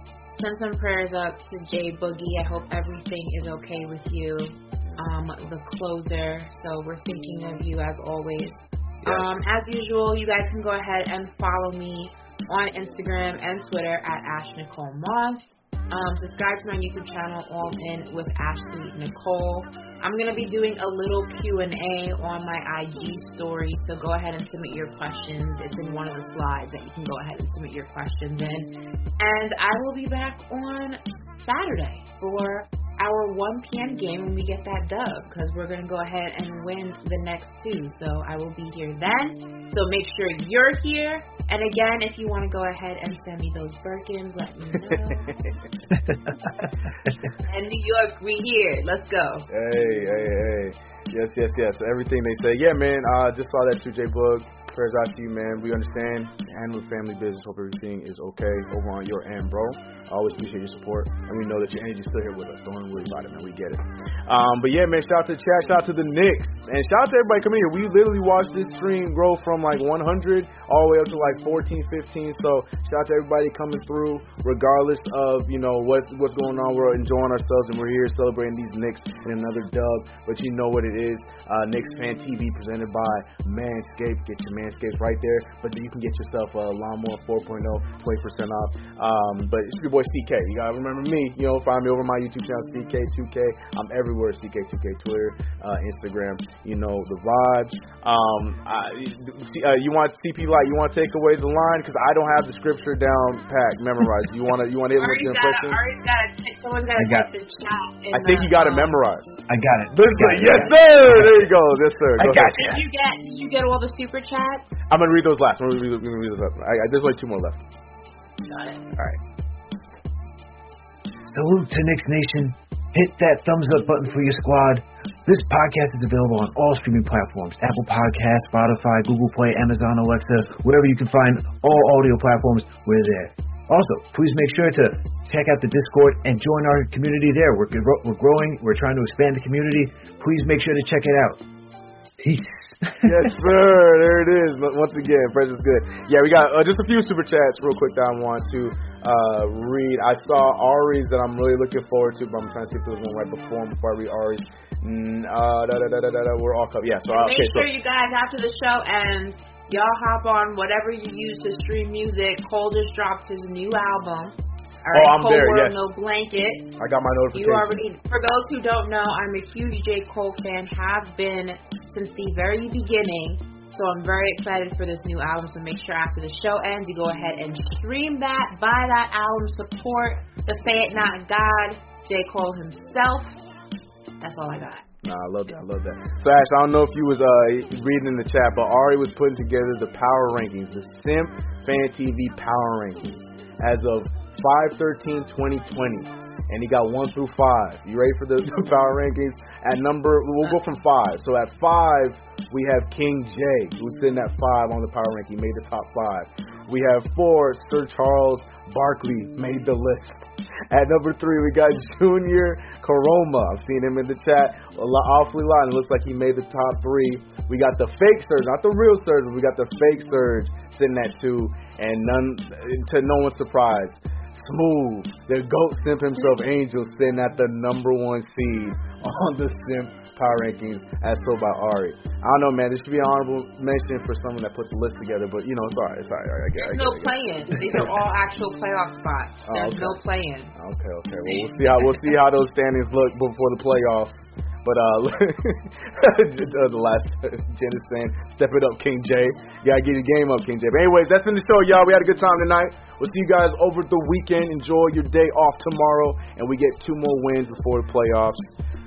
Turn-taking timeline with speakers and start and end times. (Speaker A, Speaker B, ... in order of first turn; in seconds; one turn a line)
Speaker A: 0.4-45.3
Speaker B: 9.0-9.4
Speaker C: 44.9-45.5
Speaker B: 45.9-46.7
Speaker A: 47.4-49.5
Speaker C: 49.5-105.8
Speaker A: 105.0-109.0
Speaker B: 107.0-107.3
Speaker C: 108.1-109.4
Speaker B: 109.5-111.5
Speaker C: 109.9-112.6
Speaker B: 112.2-112.8
Speaker A: 112.5-114.7
Speaker C: 114.9-117.6
Speaker A: 118.5-118.8
Speaker B: 121.3-141.4
Speaker B: 142.2-143.3
Speaker C: 143.0-157.7
Speaker A: 157.1-166.8
Speaker C: 164.9-165.9
Speaker C: 166.8-167.8
Speaker A: 167.3-183.3
Speaker A: 184.2-184.9
Speaker C: 185.0-237.9
Speaker A: 236.6-240.5
Speaker C: 239.4-240.0
Speaker C: 240.6-258.5
Speaker A: 241.6-241.9